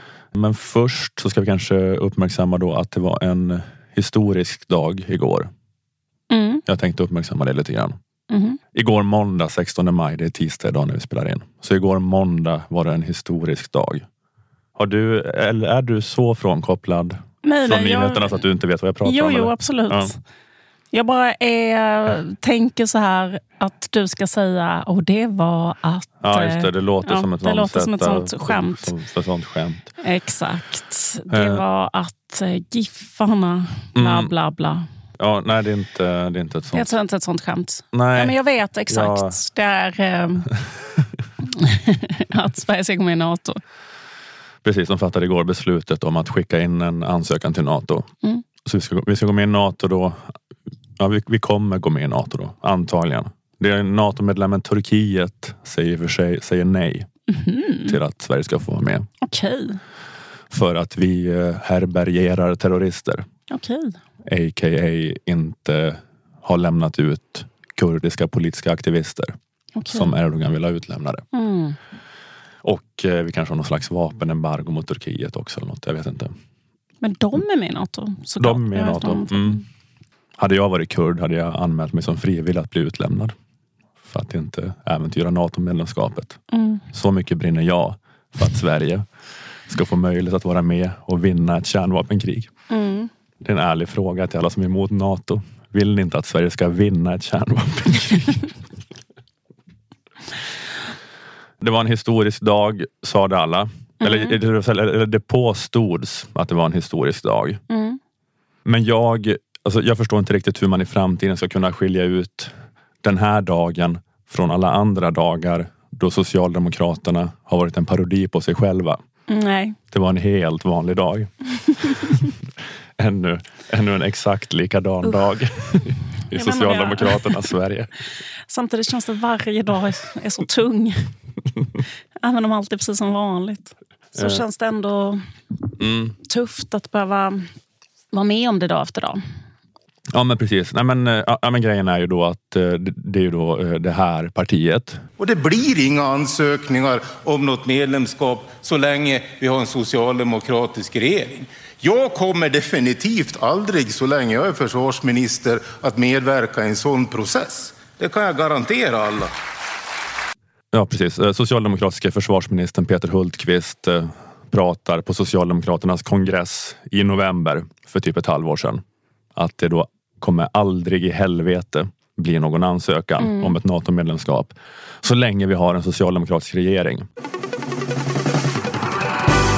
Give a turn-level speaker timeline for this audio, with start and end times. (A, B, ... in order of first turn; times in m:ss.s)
0:00.3-0:05.5 A
0:06.3-0:06.6 B
0:06.6-0:08.0 A
0:08.3-0:08.6 B
0:08.7-0:14.0 A
0:14.8-0:20.1 A
0:17.4-0:18.4 B
0:19.0-0:20.2 B
0:20.9-0:28.9 B
0:26.2-0:29.9 A
0:30.0-0:34.8 B
0:31.3-0:31.6 A
0:34.0-0:34.3 A
0:35.2-0:36.9 A
0:36.7-0:40.5 B
0:37.9-0:38.3 A
0:38.9-0:39.4 A
0:41.4-0:43.6 B
0:44.6-0:48.1 A
0:48.6-0:50.2 A
0:51.0-0:57.1 A
0:57.3-0:58.0 B
0:57.8-0:59.1 A
0:59.2-0:59.8 B
1:00.5-1:03.3 A
1:03.5-1:04.0 B
1:04.3-1:09.3 A
1:09.8-1:10.1 B
1:09.9-1:11.2 A
1:11.3-1:11.8 B
1:12.6-1:16.3 A
1:17.0-1:19.6 B
1:18.4-1:19.6 A
1:20.4-1:23.3 A
1:24.0-1:26.4 A
1:26.5-1:26.8 B
1:26.9-1:29.0 A
1:29.7-1:32.5 A
1:32.7-1:33.1 B
1:33.4-1:38.4 A
1:41.6-1:47.6 A
1:44.0-1:44.4 B
1:47.7-1:48.0 B
1:48.6-1:52.5 A
1:53.0-1:59.0 A
1:59.3-1:59.8 B
1:59.9-2:02.4 A
2:03.0-2:07.9 A
2:06.3-2:07.5 B
2:08.5-2:11.1 B
2:12.2-2:15.2 B
2:15.8-2:16.1 A
2:16.2-2:17.5 B
2:18.1-2:19.2 B
2:20.1-2:25.0 A
2:25.2-2:39.3 C
2:40.7-2:48.8 A
2:49.4-2:57.0 A